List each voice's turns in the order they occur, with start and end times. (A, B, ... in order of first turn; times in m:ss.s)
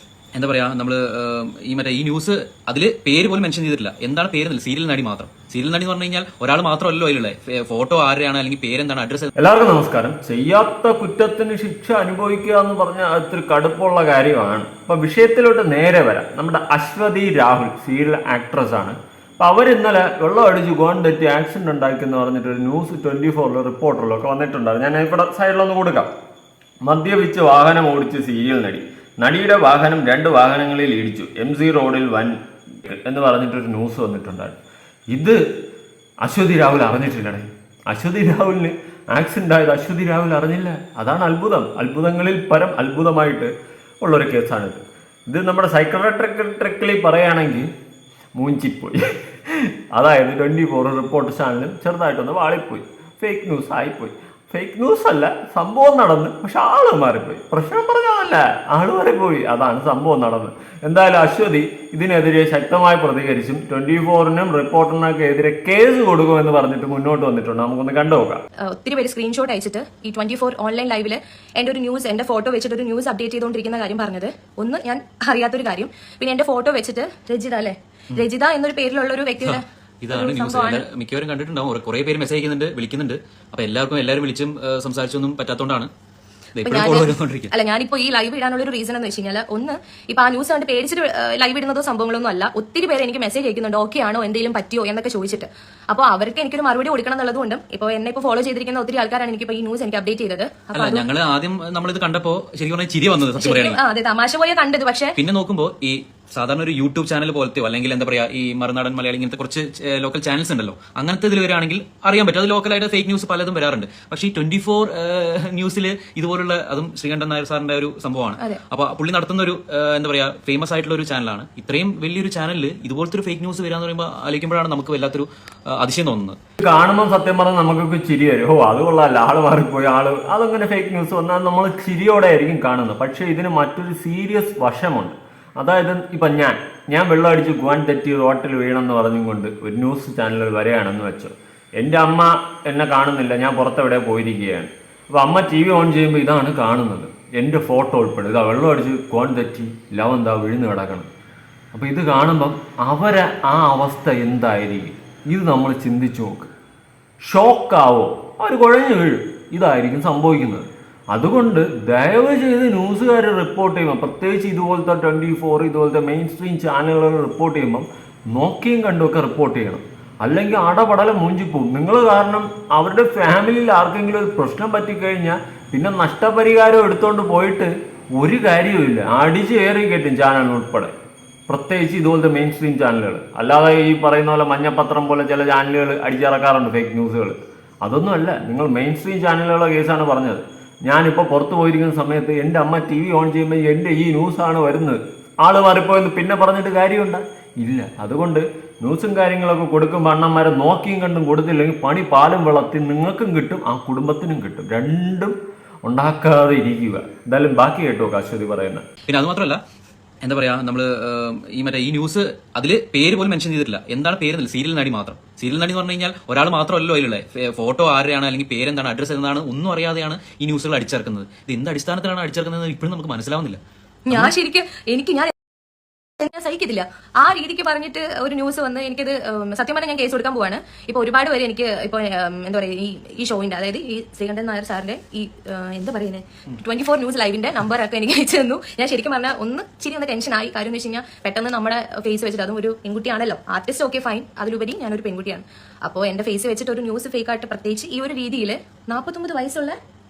0:00.3-0:09.3 A
0:09.4-0:26.1 B
0:26.8-0:34.6 B
0:35.1-0:35.4 B
0:36.2-0:43.5 B
0:44.0-0:47.7 B
0:48.3-1:08.4 B
1:08.6-1:20.8 C
1:19.4-1:25.9 A
1:26.6-1:27.5 A
1:26.6-1:41.0 C
1:40.7-1:43.8 A
1:43.4-1:45.2 C
1:45.2-2:06.4 A
2:06.6-2:31.1 B
2:31.7-2:36.5 B
2:37.2-3:00.9 B
3:01.5-3:28.8 B
3:29.1-3:29.6 A
3:30.2-3:43.6 A
3:44.0-3:45.3 C
3:46.2-4:09.8 C